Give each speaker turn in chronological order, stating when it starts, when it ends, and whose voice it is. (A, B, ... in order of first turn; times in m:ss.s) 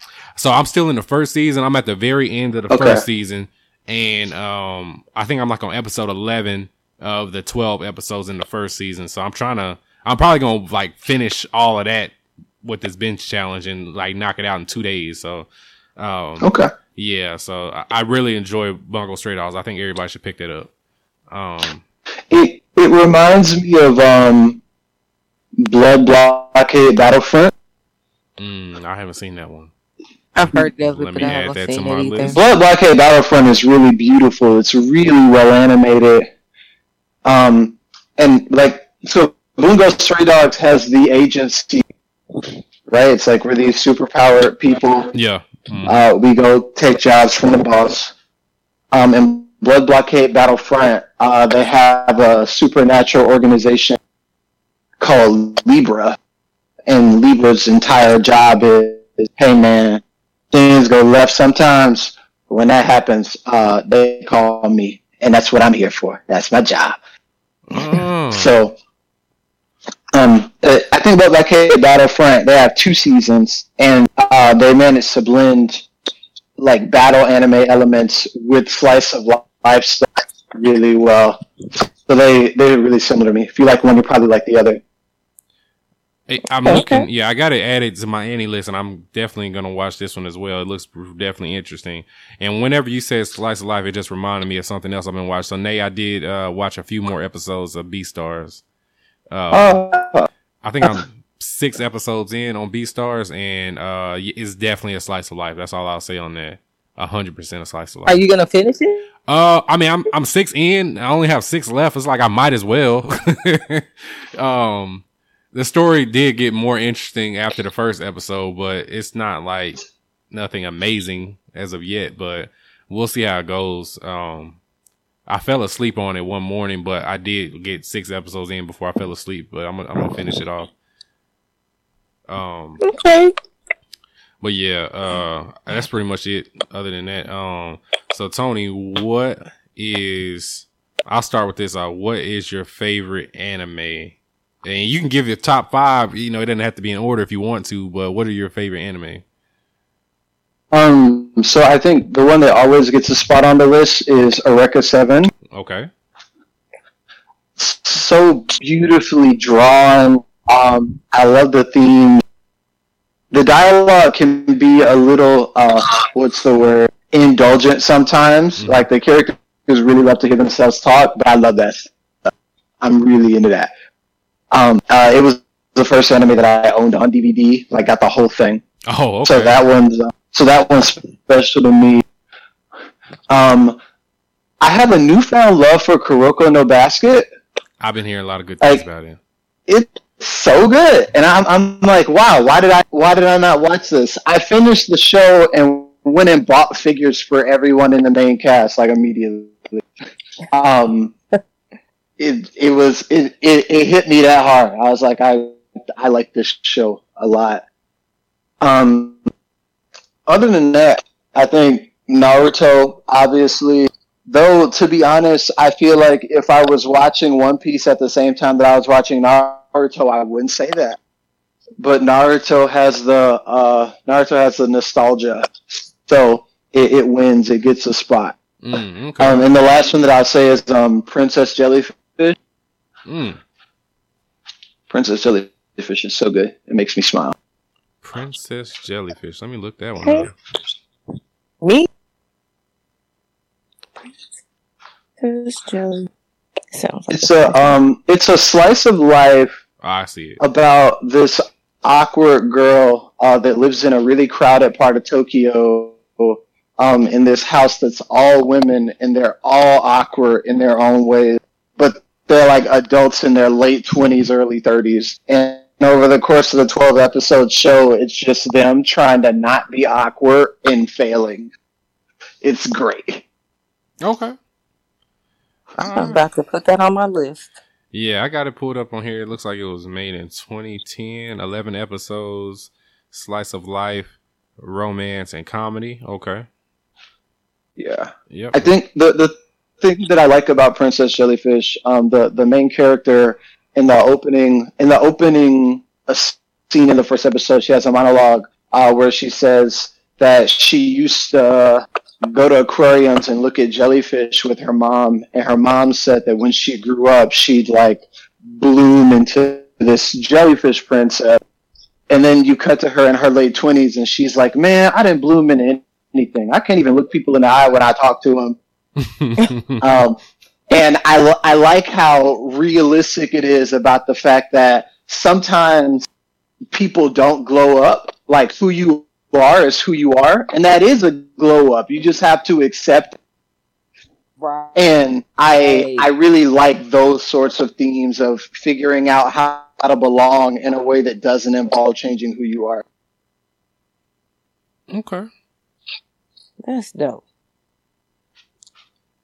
0:00.4-0:20.7 A
0:02.7-0:03.0 B
0:16.4-0:16.7 B
0:21.3-0:21.8 A
0:22.3-0:24.6 B
0:25.6-0:27.5 B
0:28.4-0:29.7 A
0:30.3-0:32.4 C
0:30.9-0:32.4 A
0:32.3-0:36.3 B
0:37.2-0:41.8 B
0:42.9-0:45.1 B
0:45.1-0:46.0 A
0:45.8-0:48.1 B
0:48.9-0:54.0 B
0:55.0-0:56.2 B
0:56.9-1:07.0 B
1:07.7-1:08.5 A
1:07.8-1:08.8 B
1:10.1-1:15.9 B
1:16.6-1:21.4 B
1:22.0-1:24.8 B
1:26.3-1:38.6 A
1:26.7-1:27.0 C
1:39.3-1:39.8 A
1:39.5-1:40.3 B
1:40.6-1:48.2 A
1:48.0-1:49.1 C
1:49.3-2:04.6 A
2:05.3-2:10.7 A
2:12.3-2:12.8 A
2:12.8-2:13.3 C
2:14.4-2:29.2 A
2:30.7-2:35.3 B
2:35.5-2:35.9 A
2:37.6-2:42.2 B
2:43.3-2:51.9 B
2:48.6-2:48.8 A
2:52.8-2:53.7 B
2:54.5-2:58.6 B
2:58.9-2:59.6 A
2:59.2-3:02.0 B
3:03.3-3:03.8 B
3:04.6-3:07.3 B
3:07.8-3:09.2 A
3:09.7-3:19.8 B
3:20.5-3:21.2 B
3:22.2-3:27.6 B
3:28.6-3:29.2 B
3:30.3-3:41.0 B
3:41.8-3:45.5 B
3:46.0-3:48.4 B
3:48.6-3:49.4 A
3:49.2-3:52.4 B
3:53.1-3:53.4 A
3:54.9-3:57.3 B
3:58.0-4:00.3 A
4:00.0-4:00.3 C
4:01.6-4:01.9 C
4:05.2-4:06.1 C
4:06.7-4:07.8 C
4:07.1-4:09.5 B
4:09.8-4:10.4 A
4:10.4-4:31.5 B
4:32.4-4:33.2 B
4:34.0-4:34.4 A
4:35.8-4:36.2 A
4:35.8-4:37.5 C
4:37.9-4:46.4 A
4:47.8-5:11.4 B
4:48.3-4:48.7 A
5:12.1-5:18.6 B
5:19.0-5:19.8 A
5:19.8-5:20.2 B
5:20.7-5:26.0 B
5:26.7-5:33.2 B
5:34.4-5:34.8 C
5:34.7-5:42.8 B
5:35.5-5:36.1 C
5:44.9-5:45.3 A
5:46.6-5:47.2 C